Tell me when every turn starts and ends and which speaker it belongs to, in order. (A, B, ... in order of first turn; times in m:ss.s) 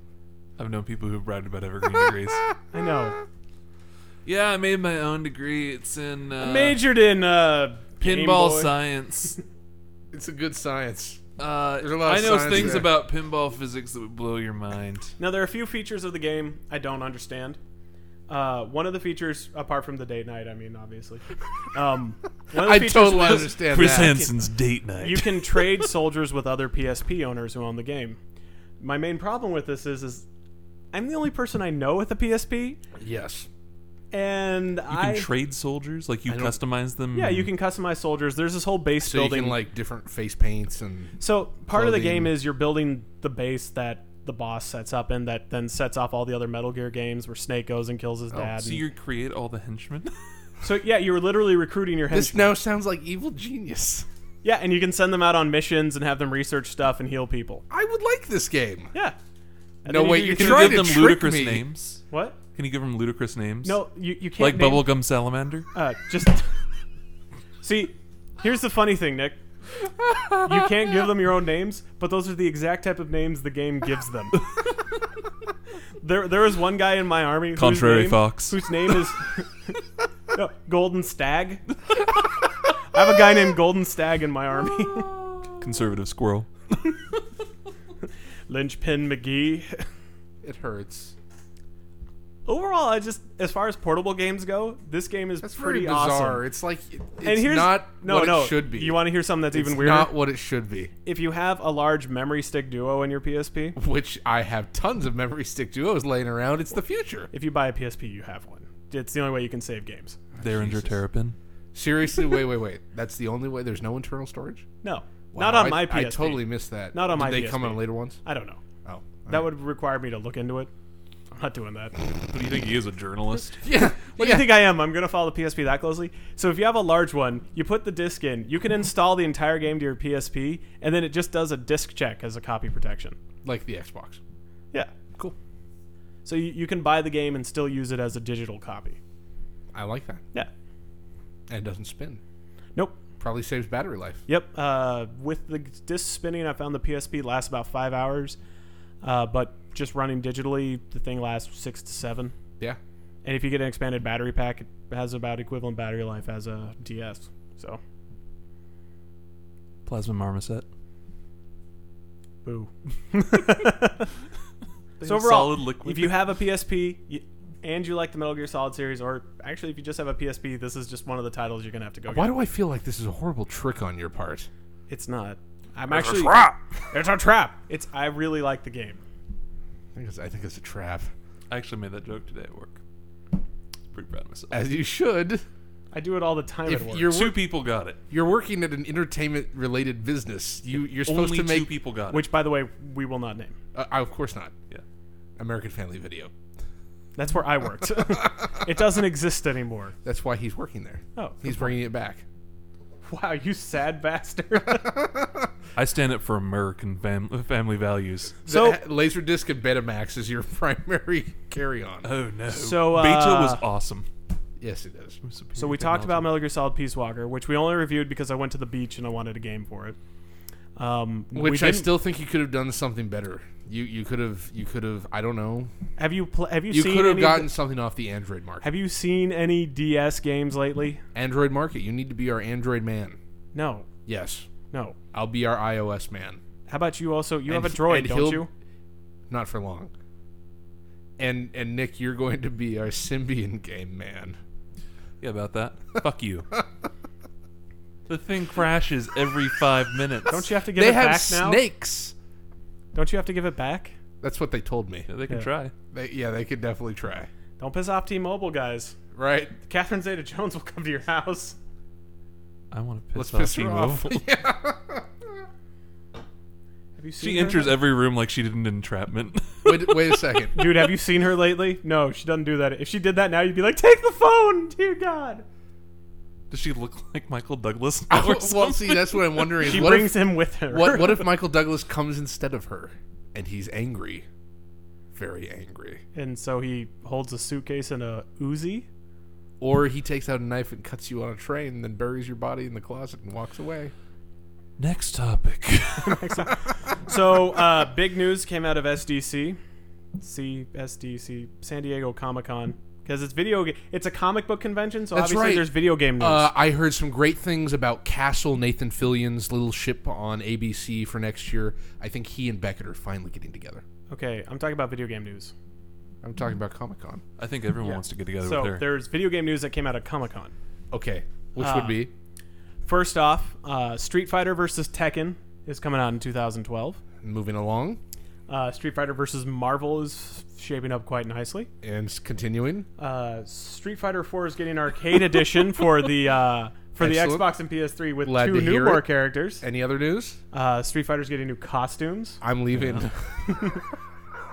0:00.6-0:02.5 A
0:02.7-0:03.2 B
0:04.2-0:06.8 A
0:06.4-0:08.8 B
0:08.0-0:09.4 A
0:10.1-0:11.2 C
0:11.4-0:15.1 A
0:11.8-0:12.9 C
0:12.5-0:12.9 B
0:15.2-0:17.6 B
0:18.3-0:24.3 B
0:22.5-0:24.3 C
0:23.4-0:25.7 A
0:25.0-0:28.2 B
0:28.8-0:30.3 B
0:30.9-0:32.8 B
0:33.0-0:33.5 C
0:34.1-0:35.3 B
0:34.9-0:37.5 A
0:36.3-0:36.6 C
0:37.2-0:39.6 B
0:39.0-0:41.2 C
0:41.2-0:48.8 B
0:41.7-0:42.3 C
0:48.6-0:50.1 A
0:50.6-0:52.6 B
0:52.1-0:54.1 C
0:54.4-0:57.6 B
0:57.7-0:58.9 C
0:59.8-1:00.9 B
0:59.9-1:01.6 C
1:00.2-1:02.0 A
1:02.1-1:02.4 B
1:02.6-1:03.8 A
1:03.6-1:04.9 B
1:04.4-1:05.7 A
1:05.7-1:06.5 B
1:07.6-1:09.4 B
1:10.4-1:14.4 B
1:16.0-1:19.8 B
1:17.6-1:18.6 A
1:20.3-1:21.7 B
1:22.9-1:25.1 B
1:25.6-1:27.0 A
1:28.5-1:29.8 B
1:30.4-1:31.2 C
1:32.5-1:36.4 B
1:35.4-1:40.9 C
1:37.2-1:40.1 B
1:41.0-1:43.8 B
1:43.8-1:47.3 C
1:47.3-1:50.2 B
1:50.4-1:51.0 C
1:50.4-1:51.4 A
1:51.7-1:54.7 C
1:54.8-1:58.6 B
1:55.3-1:58.2 C
1:58.8-1:59.4 C
1:59.3-2:00.7 B
2:01.3-2:01.9 B
2:02.2-2:03.6 A
2:03.6-2:04.6 C
2:04.1-2:13.2 B
2:13.4-2:14.2 C
2:16.2-2:19.0 B
2:19.7-2:20.2 C
2:21.5-2:22.2 C
2:23.2-2:24.2 C
2:24.3-2:28.4 B
2:29.0-2:32.3 B
2:33.2-2:37.8 B
2:39.9-2:40.6 A
2:42.4-2:44.1 B
2:45.0-2:46.2 A
2:45.0-2:52.4 B
2:52.1-2:54.5 C
2:54.9-2:59.0 B
2:55.9-2:56.6 C
3:00.0-3:01.1 C
3:01.5-3:02.8 A
3:03.9-3:04.6 A
3:04.5-3:05.4 C
3:05.9-3:07.1 B
3:06.7-3:07.4 C
3:07.1-3:08.0 A
3:08.1-3:11.7 C
3:11.0-3:12.3 A
3:12.1-3:13.6 B
3:13.8-3:14.5 C
3:15.4-3:16.3 C
3:17.2-3:20.0 B
3:20.0-3:22.2 C
3:21.2-3:21.7 B
3:23.0-3:25.0 B
3:25.0-3:25.4 C
3:25.8-3:28.4 A
3:28.4-3:28.8 B
3:28.5-3:32.1 C
3:32.0-3:34.1 A
3:32.5-3:33.6 B
3:34.6-3:35.2 C
3:35.2-3:36.3 A
3:35.6-3:40.0 B
3:40.8-3:41.9 B
3:41.3-3:45.7 C
3:46.0-3:47.5 B
3:46.7-3:48.7 C
3:48.6-3:51.0 B
3:51.2-3:53.2 C
3:53.5-3:53.9 B
3:54.1-3:54.5 C
3:54.7-3:55.0 B
3:55.1-3:56.4 C
3:56.7-3:58.5 B
3:57.5-3:58.5 C
3:59.3-3:59.9 C
4:01.2-4:04.4 C
4:05.2-4:06.5 A
4:08.1-4:10.4 A
4:10.3-4:11.6 B
4:10.7-4:12.2 C
4:12.9-4:14.0 B
4:14.2-4:15.1 C
4:15.1-4:15.7 A
4:15.9-4:17.3 C
4:17.6-4:19.0 B
4:19.2-4:19.6 C
4:19.6-4:21.6 B
4:22.7-4:24.2 A
4:23.2-4:25.1 C
4:27.0-4:27.8 B
4:27.2-4:30.4 A
4:29.6-4:30.6 C
4:30.6-4:35.4 B
4:36.5-4:39.9 A
4:38.1-4:44.3 C
4:39.6-4:41.2 B
4:45.1-4:46.0 C
4:46.2-4:48.9 B
4:49.6-4:53.9 C
4:54.8-4:56.5 A
4:56.0-4:59.6 B
5:00.2-5:06.5 B
5:05.1-5:13.8 C
5:14.1-5:15.5 B
5:16.2-5:17.2 C
5:17.4-5:18.8 A
5:17.8-5:20.5 B
5:20.9-5:22.1 C
5:21.6-5:22.0 B
5:22.8-5:27.0 B
5:27.2-5:28.0 C
5:28.5-5:31.7 B
5:31.8-5:32.9 C
5:33.0-5:39.6 B
5:37.0-5:37.5 C
5:38.2-5:39.1 C
5:39.6-5:40.4 C
5:40.5-5:42.4 B
5:42.4-5:43.4 C
5:42.7-5:43.1 A
5:43.4-5:43.8 B